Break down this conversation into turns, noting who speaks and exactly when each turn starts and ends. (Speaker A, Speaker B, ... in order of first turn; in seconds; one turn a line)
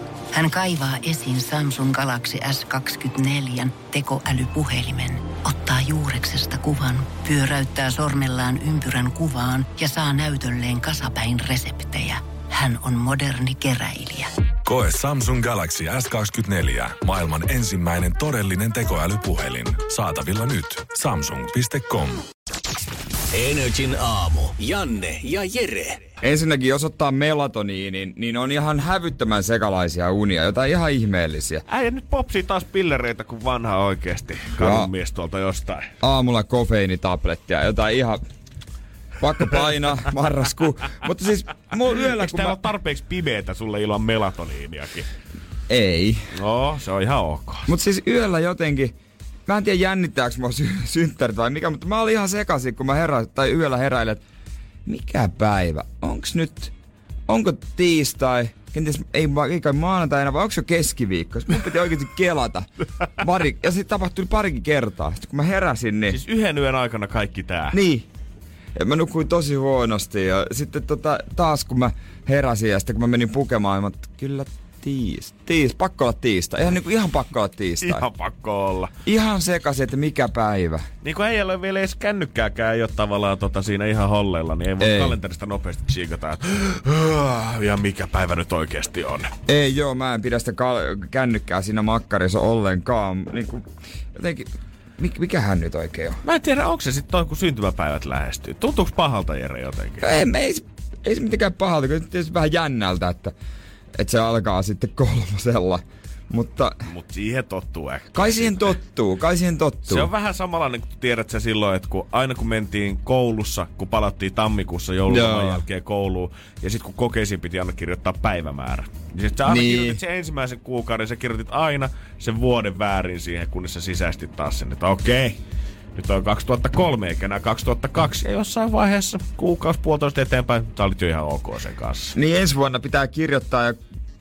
Speaker A: 0.3-14.3
Speaker B: 14.7-22.2
Speaker C: 23.3-26.0
Speaker D: 26.2-31.6
Speaker E: 31.7-35.9
Speaker D: 34.6-34.9
Speaker D: 36.0-38.2
Speaker D: 39.2-42.7
Speaker E: 41.9-45.1
Speaker D: 45.7-46.3
Speaker E: 46.3-47.7
Speaker D: 47.7-49.0
Speaker D: 49.5-54.2
Speaker D: 54.9-56.7
Speaker D: 57.3-66.2
Speaker E: 66.1-67.8
Speaker D: 67.7-68.1
Speaker D: 68.8-78.1
Speaker E: 77.8-78.9
Speaker D: 79.0-80.9
Speaker E: 81.0-89.3
Speaker D: 84.8-85.2
Speaker D: 89.5-96.2
Speaker E: 96.2-100.1
Speaker D: 100.0-103.3
Speaker D: 104.0-106.8
Speaker E: 106.9-108.8
Speaker D: 108.2-110.1
Speaker E: 109.9-125.4
Speaker D: 115.1-115.6
Speaker D: 119.5-120.0
Speaker E: 126.0-132.2
Speaker D: 132.2-133.8